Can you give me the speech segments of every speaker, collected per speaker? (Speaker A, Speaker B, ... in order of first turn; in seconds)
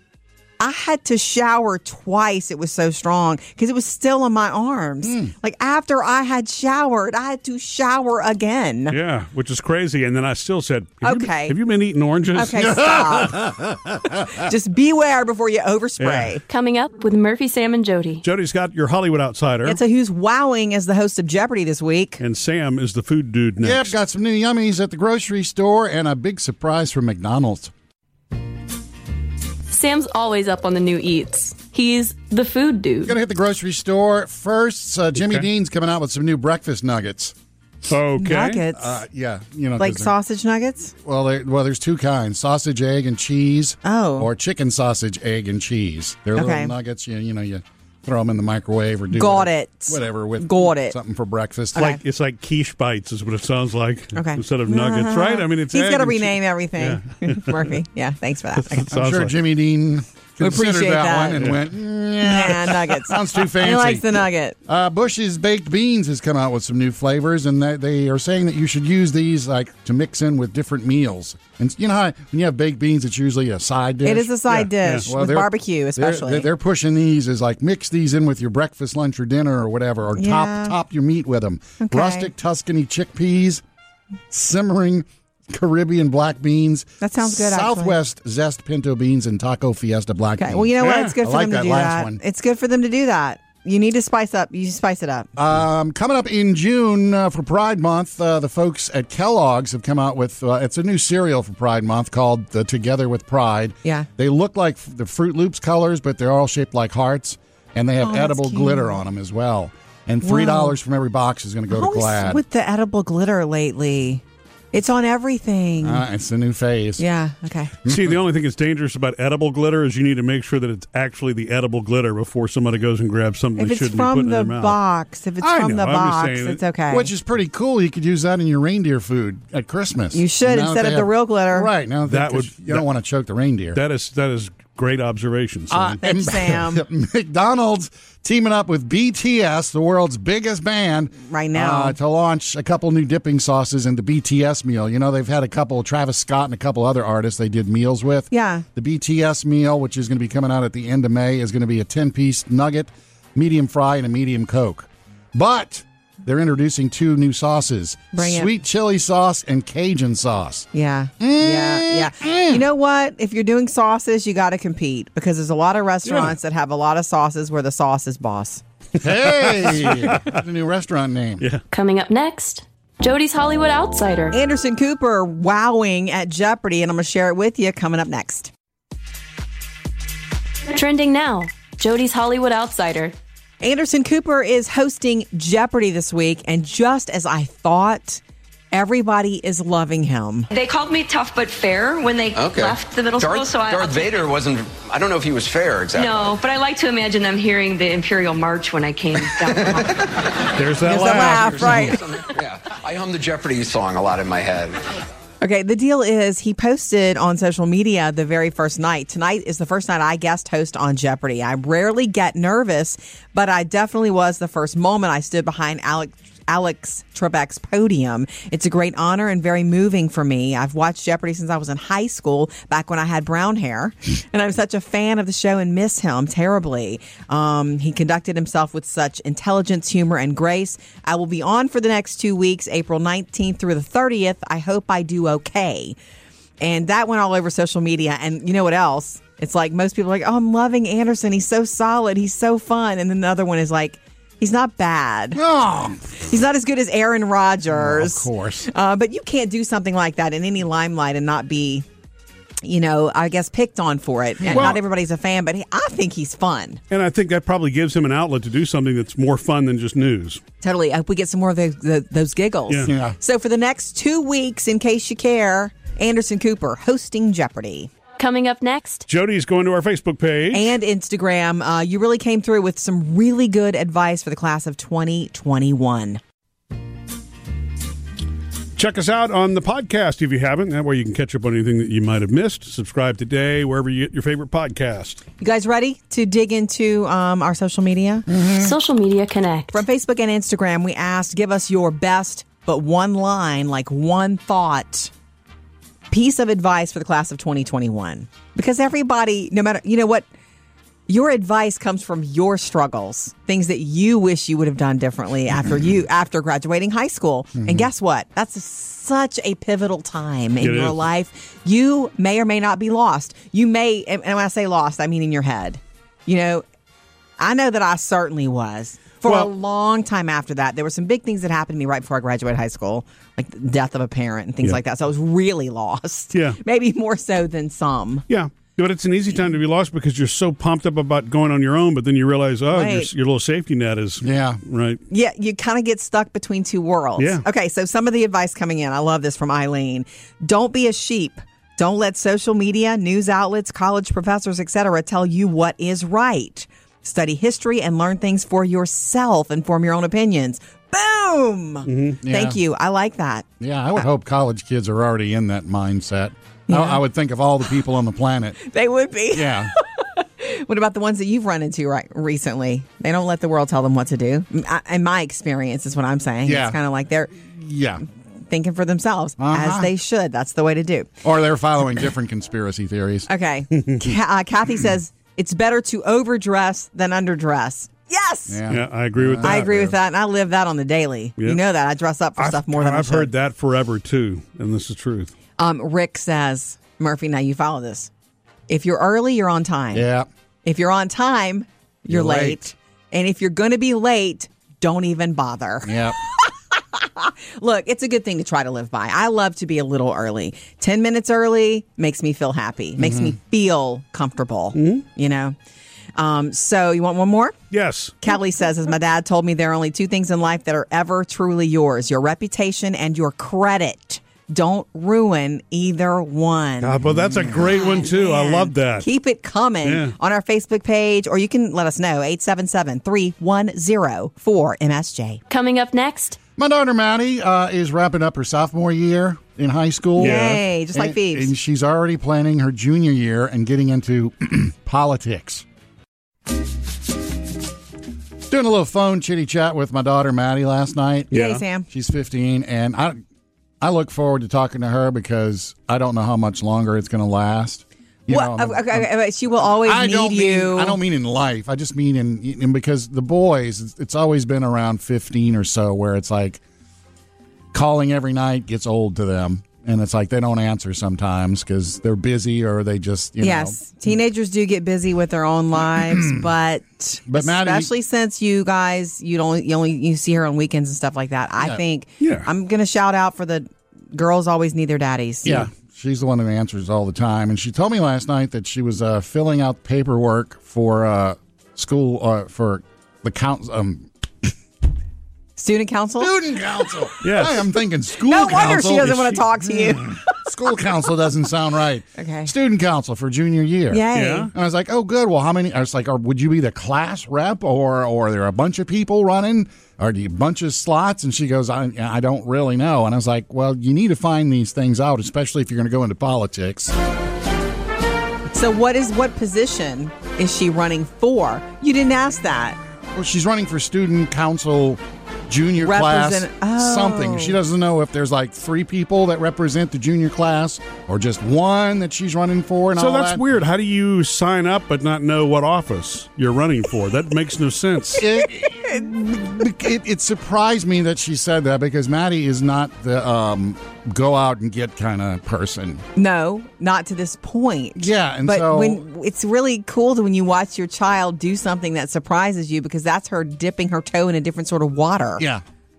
Speaker A: 0.6-8.9, 11.0-11.6, 12.3-13.5, 14.3-16.4, 19.6-22.2, 38.2-39.0, 39.8-40.9, 43.8-44.3, 46.3-46.7, 49.1-51.0, 54.1-58.9, 60.4-61.5, 62.2-64.6, 74.0-76.5, 80.2-80.8, 81.8-82.3, 87.0-88.0, 90.4-95.3, 108.0-109.0, 110.2-110.8, 111.7-116.0, 117.0-117.7, 123.6-127.1, 130.1-131.7, 135.7-136.8, 141.2-141.9, 148.3-148.7, 158.1-158.5, 160.7-168.6, 174.3-178.5, 183.6-188.2, 188.7-190.5, 200.8-202.0, 205.4-235.9, 236.6-245.4, 246.3-251.8, 252.6-256.8, 260.6-267.9, 270.5-276.2, 285.4-288.3, 289.7-295.1, 296.1-300.3, 301.1-316.6, 317.4-328.2, 332.7-333.1, 335.1-354.1, 356.7-357.0, 358.6-367.4, 368.5-371.1, 373.3-378.6, 379.4-383.3, 385.6-388.1, 388.7-390.1, 390.6-405.6, 406.1-407.6, 408.2-417.0, 417.5-425.4, 430.2-431.5, 441.3-441.9, 448.3-451.0, 463.4-475.7, 485.6-486.3, 488.2-490.2, 492.1-492.5, 493.9-494.5, 508.5-512.8, 515.8-517.6, 536.1-545.4
Speaker B: 5.0-5.3, 12.5-14.5, 23.6-27.7, 33.0-37.3, 38.7-40.1, 41.0-52.0, 58.9-74.3, 75.0-83.6, 84.3-92.2, 95.3-112.4, 115.8-117.0, 117.8-118.2, 126.9-133.8, 135.7-160.7, 161.2-162.6, 169.0-171.5, 245.3-246.2, 247.7-248.7, 254.4-254.8, 262.8-263.2, 288.3-288.7, 307.6-307.9, 334.2-334.6, 352.2-352.6, 353.6-358.6, 359.3-359.7, 366.4-366.8, 367.4-368.0, 369.4-369.9, 371.2-373.3, 378.5-379.8, 389.9-390.3, 392.1-392.6, 395.9-396.1, 403.0-403.3, 417.1-417.6, 426.6-435.6, 438.5-441.3, 441.9-443.2, 443.8-449.1, 449.7-456.6, 457.7-463.8, 465.9-466.5, 467.2-467.9, 475.4-484.5, 486.2-506.9, 513.1-523.4, 528.2-536.0, 538.0-539.0, 545.4-545.6
Speaker C: 8.9-12.6, 16.0-16.4, 18.2-19.8, 22.2-23.9, 35.1-35.5, 37.9-38.6, 51.8-57.7, 58.5-59.4, 61.4-61.6, 74.5-75.0, 90.8-91.1, 117.9-124.8, 125.4-126.6, 132.1-132.8, 133.7-136.0, 169.2-170.4, 200.6-202.0, 254.5-254.8, 256.9-260.4, 269.1-270.7, 278.8-285.2, 310.6-311.0, 326.3-326.6, 328.3-335.0, 337.2-337.4, 351.9-352.2, 378.7-379.9, 382.4-385.3, 404.7-405.0, 407.7-408.2, 416.8-419.1, 419.8-420.1, 430.2-430.6, 441.3-441.6, 472.2-472.5, 487.2-487.7, 494.1-494.5, 523.0-528.3
Speaker D: 16.5-18.2, 29.7-33.1, 171.7-174.4, 180.7-183.2, 190.8-191.3, 193.4-193.7, 268.2-269.0, 288.5-289.8, 425.5-426.4
Speaker E: 190.5-194.1, 196.0-199.9
Speaker F: 192.3-196.4, 199.2-200.1, 201.1-204.8